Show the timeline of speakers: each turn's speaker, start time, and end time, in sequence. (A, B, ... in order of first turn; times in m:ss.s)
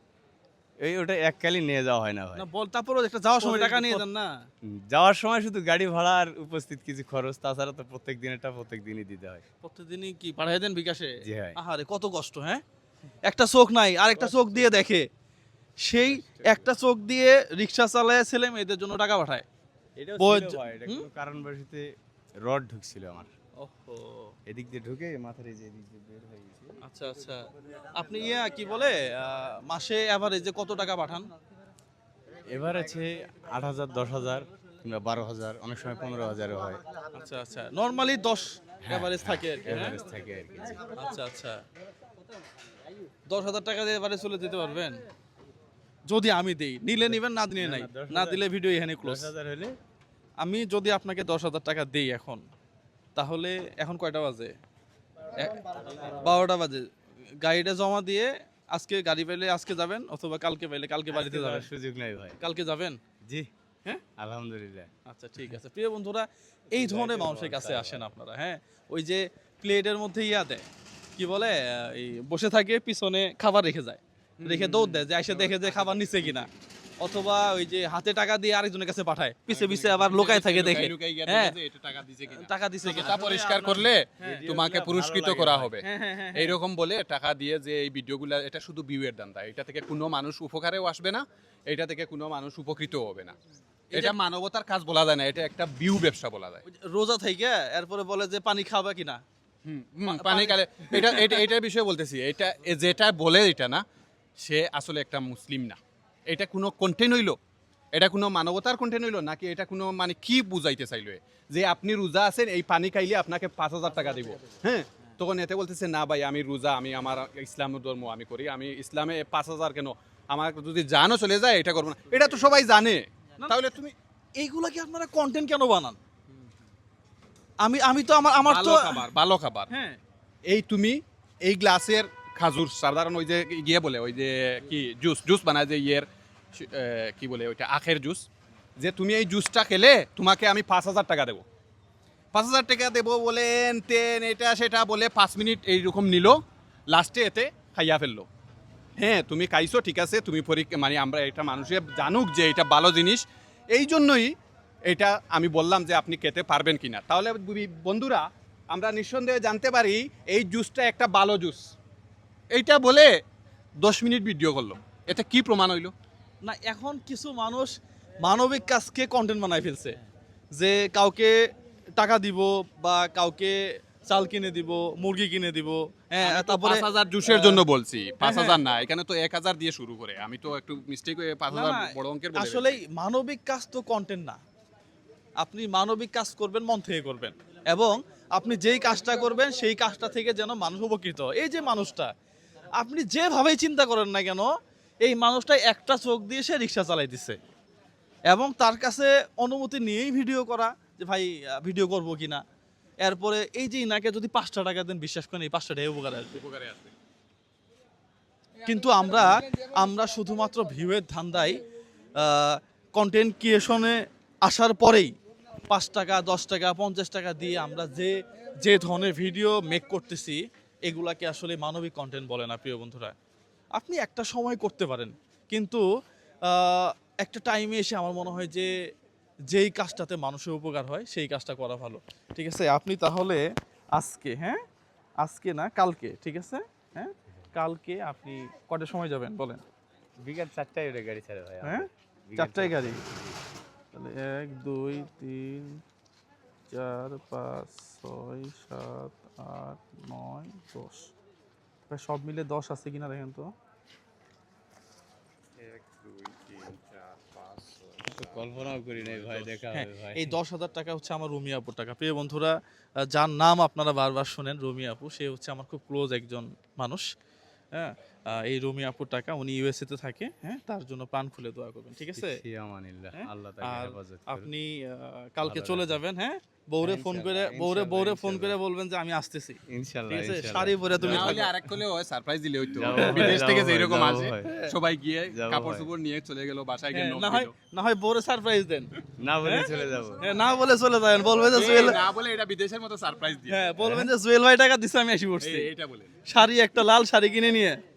0:00.8-0:02.5 A
0:02.4-0:04.3 B
0:03.4-0:04.0 A
0:04.7-0:09.4 A
0:09.6-0:12.6 B
0:11.2-0:11.6 A
0:13.2-0:15.1 B
0:15.8-0:19.4 B
0:16.1-0:16.7 A
0:20.0-0:21.9 A
0:20.2-0:21.0 B
0:22.4-0:23.3 A
0:23.6-0:24.3 B
0:24.5-0:26.8 A
0:26.8-0:31.3 B
0:32.5-0:36.8 A
0:37.1-0:40.0 B
0:38.8-0:40.9 A
0:40.9-0:41.6 B
0:43.3-0:45.0 B
0:46.1-0:49.3 B
0:47.0-0:48.4 A
0:49.0-0:49.8 A
0:50.4-0:52.4 B
0:53.2-0:54.5 B
0:56.0-0:56.9 B
0:57.4-1:01.7 B
1:01.1-1:02.4 A
1:02.4-1:03.0 B
1:04.2-1:04.9 A
1:05.1-1:10.7 B
1:06.7-1:08.1 A
1:11.2-1:16.5 B
1:14.4-1:15.8 C
1:17.0-1:21.6 B
1:19.5-1:33.4 C
1:22.3-1:24.4 B
1:24.2-1:25.7 A
1:25.8-1:26.6 B
1:33.9-1:34.2 B
1:33.9-1:36.6 C
1:36.7-1:39.2 B
1:39.6-1:43.8 C
1:40.1-1:41.4 B
1:44.4-1:47.4 C
1:47.9-2:03.9 C
2:04.4-2:06.0 B
2:07.6-2:09.0 B
2:08.4-2:09.7 C
2:09.7-2:10.0 B
2:10.5-2:18.3 C
2:18.8-2:21.4 C
2:22.3-2:28.3 C
2:29.0-2:34.3 C
2:34.9-2:41.7 C
2:42.5-2:43.1 C
2:43.8-2:45.9 C
2:46.4-2:47.7 B
2:48.2-2:50.0 B
2:50.6-2:51.4 B
2:52.0-2:57.6 B
2:56.2-3:02.8 C
2:58.2-2:58.6 B
3:01.5-3:04.4 B
3:05.4-3:12.1 B
3:12.8-3:14.5 B
3:15.0-3:17.4 B
3:18.3-3:22.4 B
3:23.0-3:26.4 B
3:26.3-3:26.9 C
3:28.6-3:31.6 B
3:32.2-3:35.1 B
3:35.7-3:43.2 B
3:43.8-3:45.8 B
3:46.5-3:48.7 B
3:49.5-3:53.4 B
3:54.0-3:54.6 B
3:55.2-3:59.6 B
4:00.2-4:03.4 A
4:01.6-4:03.0 B
4:03.9-4:05.8 B
4:06.7-4:11.1 B
4:11.9-4:13.5 B
4:15.6-4:19.6 C
4:18.1-4:20.4 A
4:19.7-4:22.6 B
4:23.1-4:27.1 B
4:27.7-4:32.4 B
4:32.2-4:34.5 A
4:33.2-4:41.5 B
4:35.4-4:36.0 A
4:36.8-4:38.6 A
4:39.7-4:41.5 A
4:41.0-4:47.5 C
4:42.8-4:44.5 A
4:43.0-4:43.4 B
4:44.4-4:44.7 B
4:45.3-4:45.9 A
4:46.9-4:48.9 B
4:49.2-4:50.2 A
4:49.4-4:52.0 B
4:51.5-4:53.6 C
4:53.5-4:55.7 B
4:53.8-4:54.1 A
4:55.4-4:56.1 C
4:56.3-4:57.8 B